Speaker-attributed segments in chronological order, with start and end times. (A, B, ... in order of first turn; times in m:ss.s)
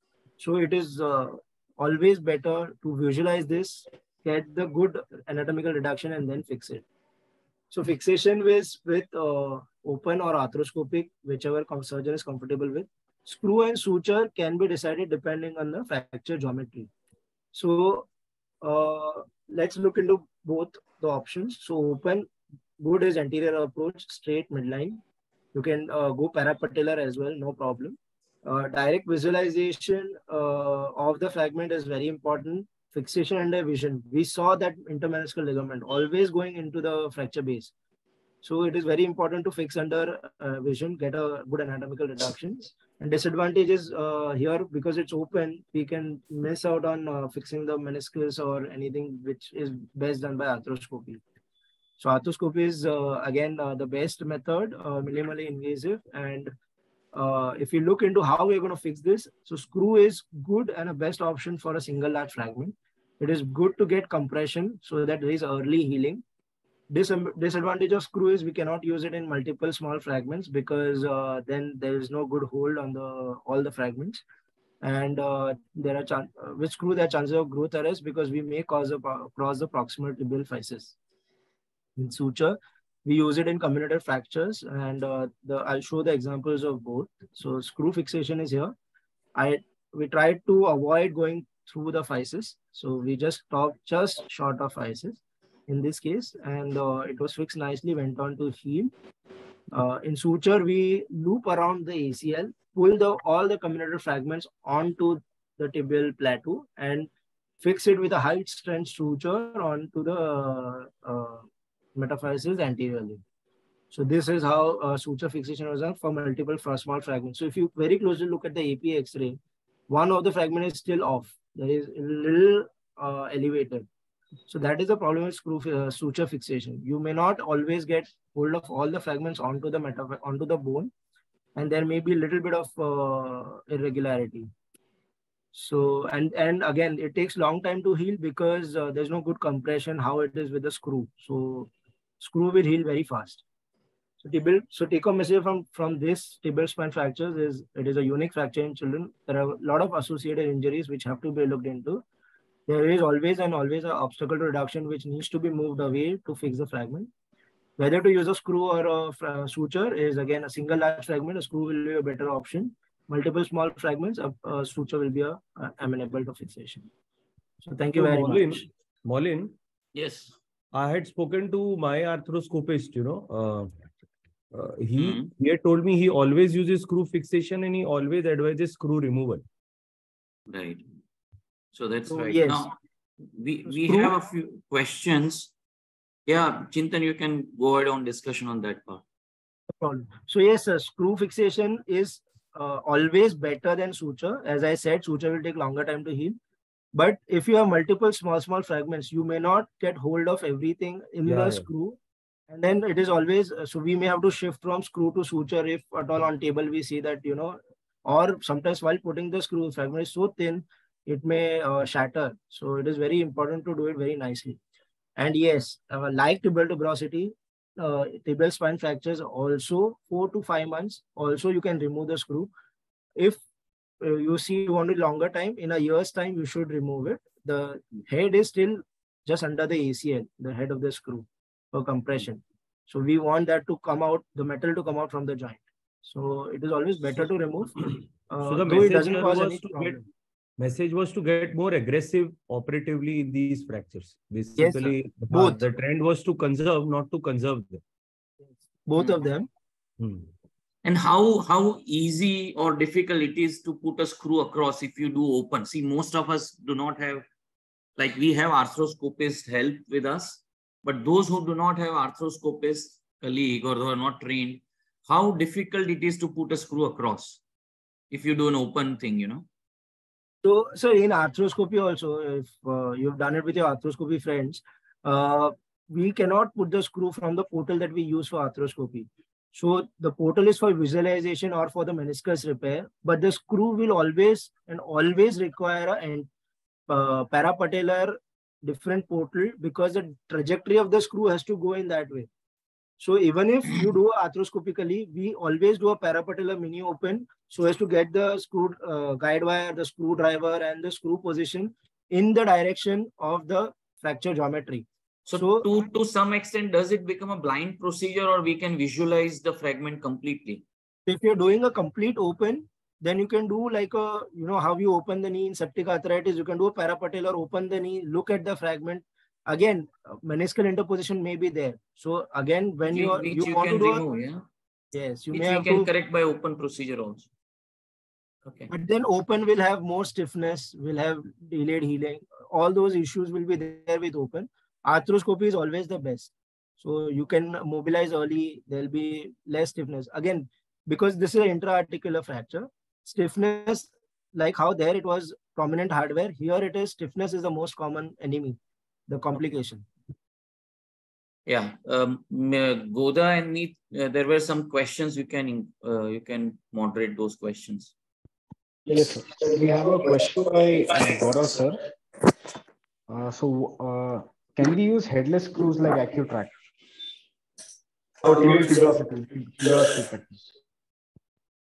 0:00.4-0:06.8 A
0:07.7-0:16.9 A
0:17.5-0:18.1 A
0:18.6-0:25.0 A
0:25.5-0:37.7 A
0:38.4-0:51.2 A
0:52.0-0:56.5 A
0:57.1-1:06.2 A
1:06.9-1:14.2 A
1:14.8-1:21.0 A
1:22.0-1:28.7 A
1:29.4-1:38.9 A
1:39.7-1:47.1 A
1:47.6-1:53.2 A
1:53.9-2:03.9 A
2:04.5-2:10.9 A
2:11.6-2:14.5 A
2:15.5-2:23.4 A
2:24.2-2:32.0 A
2:32.7-2:37.1 A
2:37.8-2:46.9 A
2:47.6-2:48.6 A
2:47.9-2:49.6 B
2:50.0-2:50.3 C
2:50.7-2:53.7 B
2:54.5-2:59.4 B
2:55.0-2:55.3 C
3:00.5-3:00.8 C
3:01.7-3:02.7 C
3:02.1-3:02.7 A
3:03.4-3:05.5 C
3:03.7-3:04.2 A
3:06.3-3:09.0 C
3:09.8-3:16.4 A
3:16.9-3:22.0 A
3:21.2-3:21.7 B
3:22.5-3:34.6 A
3:35.2-3:42.5 A
3:44.0-4:00.1 A
3:58.4-4:00.0 B
4:00.6-4:07.8 B
4:04.6-4:05.6 A
4:08.9-4:09.5 A
4:10.0-4:10.3 B
4:10.8-4:17.2 C
4:18.0-4:27.4 C
4:28.1-4:29.4 C
4:30.4-4:46.3 A
4:46.9-4:52.3 A
4:53.0-5:05.7 A
5:05.3-5:10.6 C
5:11.1-5:24.0 A
5:22.9-5:24.4 C
5:24.9-5:25.9 A
5:25.3-5:27.3 C
5:28.7-5:49.9 A
5:51.5-5:57.9 C
5:58.9-6:01.8 D
6:03.1-6:06.5 D
6:08.2-6:10.4 D